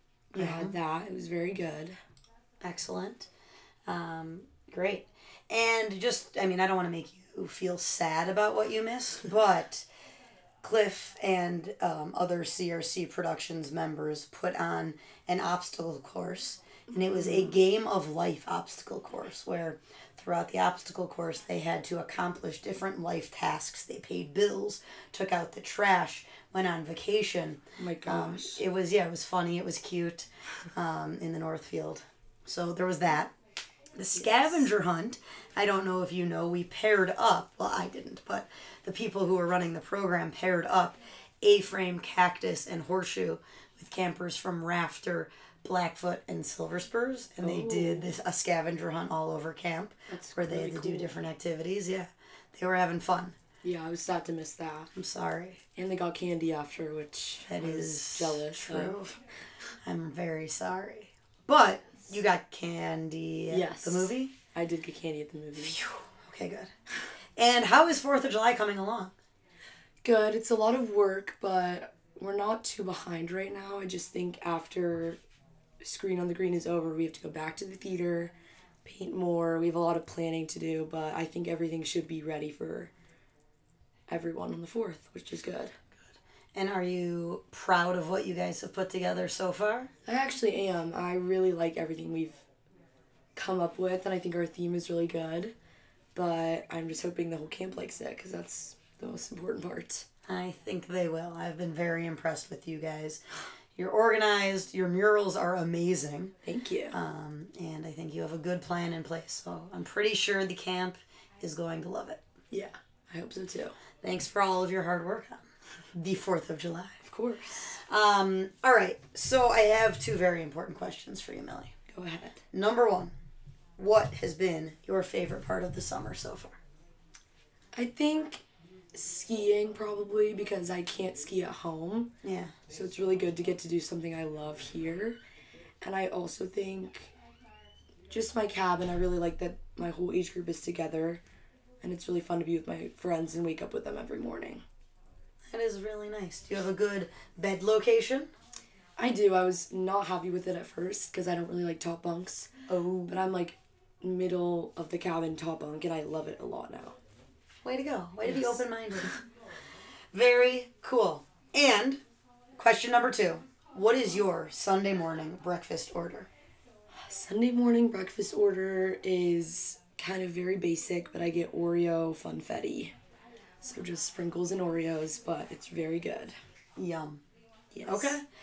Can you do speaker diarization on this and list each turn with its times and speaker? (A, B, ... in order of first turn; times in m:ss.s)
0:00.3-0:00.7 A
0:00.3-0:02.0 B
0:02.6-0:03.3 A
0:03.9-0:09.9 A
0:10.6-0:33.3 A
0:27.8-0:28.6 B
0:33.9-0:53.4 A
0:34.1-0:34.7 B
0:47.4-0:48.1 B
0:50.1-0:51.1 B
0:53.6-0:54.9 B
0:54.9-0:55.6 A
0:55.8-0:58.9 B
0:57.5-0:59.2 A
0:59.8-1:04.3 A
1:03.5-1:05.8 B
1:05.6-1:06.7 A
1:07.4-1:09.1 A
1:10.0-1:15.2 B
1:15.8-1:18.3 B
1:18.8-1:22.9 B
1:24.1-1:25.8 B
1:26.5-1:29.9 A
1:30.0-1:32.4 B
1:33.3-1:35.5 B
1:36.1-1:40.0 B
1:40.3-1:43.2 A
1:43.8-1:46.3 A
1:46.4-1:47.0 B
1:46.9-1:52.2 A
1:52.5-1:53.8 B
1:54.0-1:55.4 A
1:56.0-1:57.0 A
1:57.0-1:57.8 B
1:57.8-2:01.7 A
2:01.9-2:02.4 B
2:02.5-2:03.1 A
2:03.8-2:06.6 A
2:07.7-2:12.1 B
2:12.2-2:12.6 A
2:12.7-2:15.2 B
2:15.8-2:17.1 B
2:18.1-2:21.2 B
2:21.8-2:24.6 B
2:25.5-2:28.3 A
2:29.0-2:32.5 B
2:32.7-2:33.2 A
2:33.1-2:37.0 B
2:37.6-2:39.2 A
2:40.1-2:42.0 A
2:42.6-2:46.3 A
2:47.1-2:52.9 B
2:53.6-2:56.4 B
2:56.8-2:57.2 A
2:57.7-2:58.2 B
2:57.8-2:58.2 A